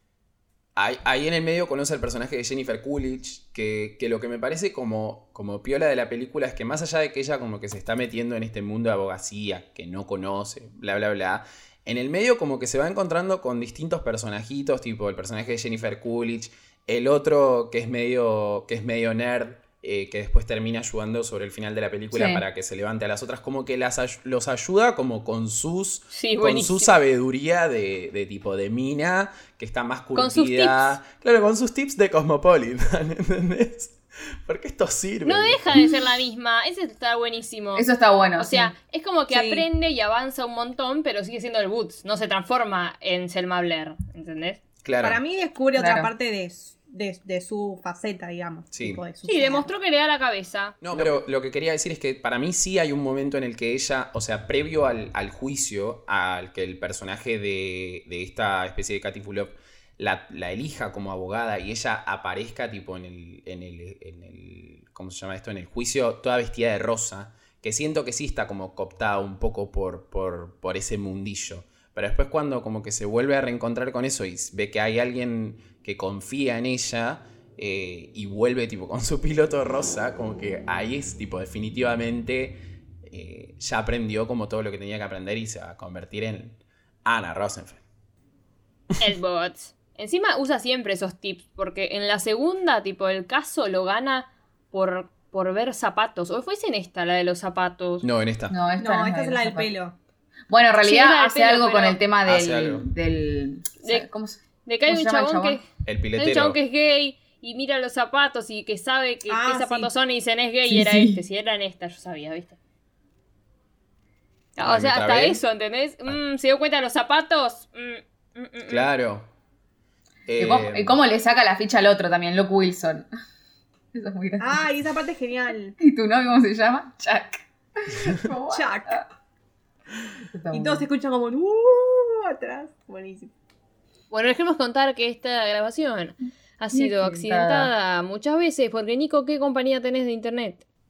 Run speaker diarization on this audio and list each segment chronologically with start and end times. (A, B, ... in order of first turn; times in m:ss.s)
0:00.8-0:35.8 A
0:22.1-0:22.4 B
0:26.1-0:27.0 C
0:30.2-0:31.0 C
0:35.2-0:44.6 C
0:37.8-0:38.7 B
0:39.3-0:39.7 D
0:44.8-0:45.2 A
0:45.0-0:49.7 D
0:45.8-0:46.1 B
0:48.7-0:49.0 A
0:49.2-0:50.8 C
0:50.8-1:27.8 A
1:29.0-1:38.1 C
1:38.0-1:38.6 A
1:38.5-1:39.7 B
1:38.8-1:40.0 D
1:40.5-1:45.6 B
1:40.8-1:42.0 C
1:42.3-1:42.9 A
1:44.6-1:45.6 C
1:45.8-1:46.6 A
1:46.2-1:52.6 C
1:49.3-1:49.9 D
1:50.7-1:51.2 B
1:54.6-1:58.9 C
1:54.6-1:55.4 A
1:58.7-1:59.3 A
2:00.3-2:01.0 A
2:00.4-2:03.1 B
2:03.9-2:04.7 B
2:04.4-2:05.8 D
2:05.8-2:09.0 B
2:08.0-2:08.2 A
2:08.5-2:09.0 D
2:10.2-2:10.9 B
2:10.5-2:13.3 D
2:14.1-2:20.6 C
2:16.7-2:17.7 B